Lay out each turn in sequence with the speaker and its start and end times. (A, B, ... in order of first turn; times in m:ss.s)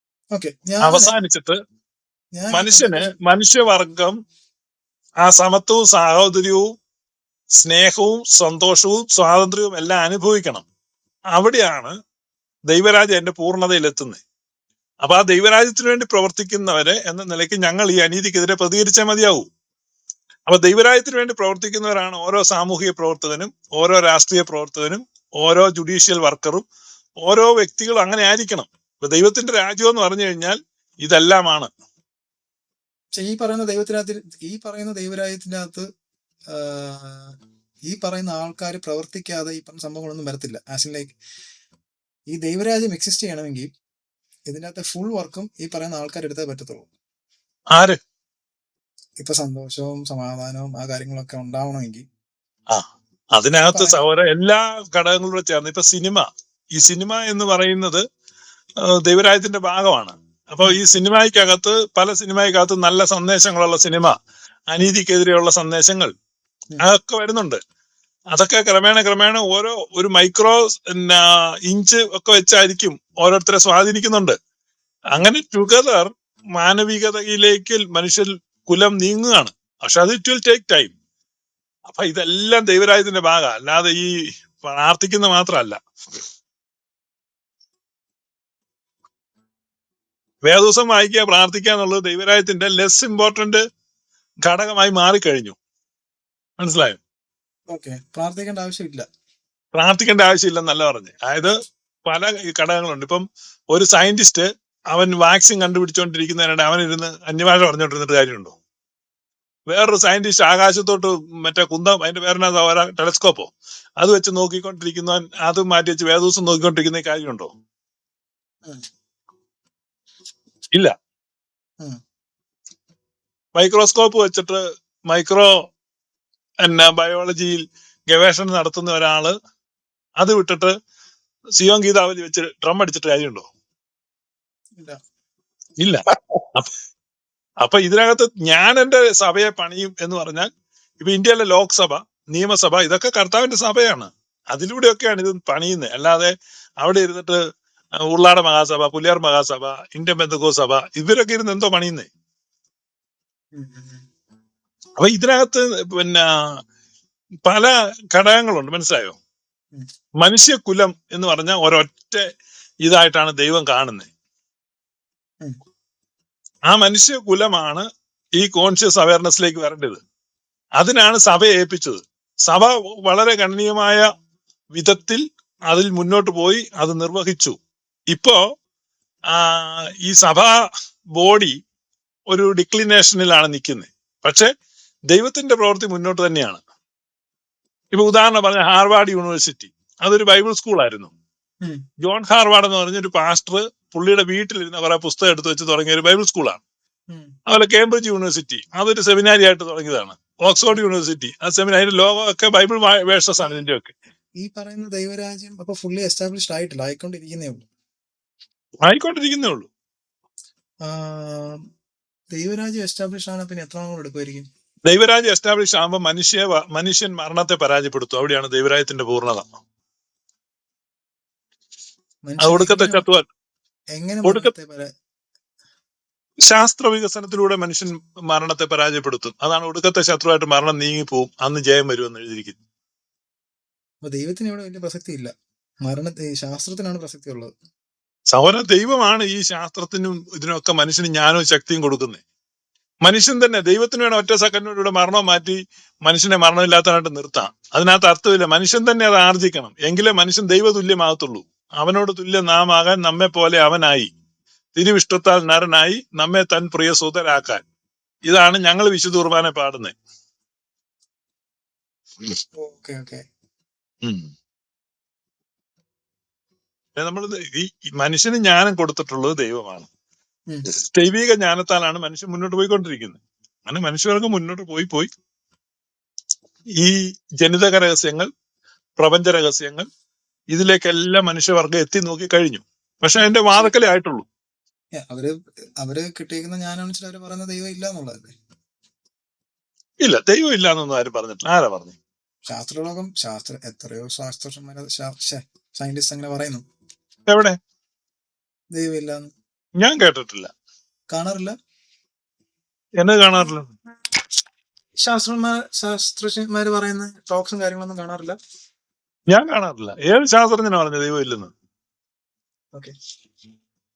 0:00.3-0:01.1 A
0:00.8-0:01.6 B
0:02.4-0:03.1 A
0:02.5-0:04.2 B
0:05.2-0:06.7 B
0:07.6-0:10.6 B
0:11.3-0:11.9 B
0:12.7-0:14.2 B
0:15.0-0:19.5 B
0:20.5-0:26.6 B
0:27.2-0:31.7 B
0:33.1-0:35.8 A
0:36.5-0:37.3 A
0:37.9-0:41.2 A
0:42.3-0:43.7 A
0:44.5-0:46.9 A
0:47.7-0:48.0 B
0:49.2-0:52.0 A
0:52.7-0:58.0 B
0:53.6-0:54.0 A
0:58.9-1:04.2 B
1:04.7-1:06.1 B
1:06.8-1:07.6 B
1:08.3-1:14.4 B
1:15.1-1:20.9 B
1:21.9-1:25.8 B
1:30.5-1:33.6 B
1:34.4-1:35.6 B
1:36.6-1:37.0 B
1:37.7-1:39.0 A
1:39.7-1:41.5 B
1:42.0-1:48.6 B
1:49.7-1:57.5 B
2:03.5-2:05.6 B
2:06.6-2:09.3 B
2:10.2-2:10.7 B
2:11.6-2:13.5 B
2:15.8-2:16.7 B
2:17.6-2:20.5 B
2:21.0-2:27.4 B
2:28.1-2:32.1 B
2:33.5-2:34.0 A
2:35.0-2:36.6 B
2:37.4-2:39.2 B
2:40.2-2:42.2 B
2:42.8-2:44.1 B
2:46.7-2:47.8 B
2:48.4-2:50.0 B
2:50.8-2:54.0 B
2:54.7-2:57.6 B
2:58.1-2:58.4 B
2:59.3-3:00.6 B
3:01.2-3:01.6 B
3:02.3-3:04.5 B
3:05.1-3:06.6 B
3:07.9-3:11.1 B
3:12.0-3:16.6 B
3:17.5-3:23.9 B
3:24.4-3:27.6 A
3:28.8-3:29.7 B
3:30.8-3:31.6 A
3:32.3-3:34.5 A
3:34.8-3:39.5 B
3:42.2-3:43.0 A
3:42.4-3:43.2 B
3:43.9-3:44.9 A
3:44.2-3:44.5 B
3:46.5-3:52.6 B
3:54.0-3:55.3 A
3:55.8-3:57.5 A
3:58.3-4:02.2 B
4:03.0-4:14.1 B
4:14.8-4:17.6 B
4:18.3-4:19.9 B
4:22.6-4:23.2 A
4:24.0-4:24.3 B
4:27.0-4:29.9 B
4:30.7-4:35.1 B
4:36.8-4:38.3 B
4:39.0-4:39.9 B
4:40.5-4:44.2 B
4:43.2-4:43.7 A
4:45.0-4:48.3 A
4:50.0-4:52.0 B
4:52.5-4:56.6 A
4:57.3-4:57.6 B
4:58.7-4:59.3 A
4:59.8-5:00.5 B
5:01.1-5:01.5 A
5:03.0-5:03.7 B
5:05.0-5:08.3 A
5:09.3-5:11.5 B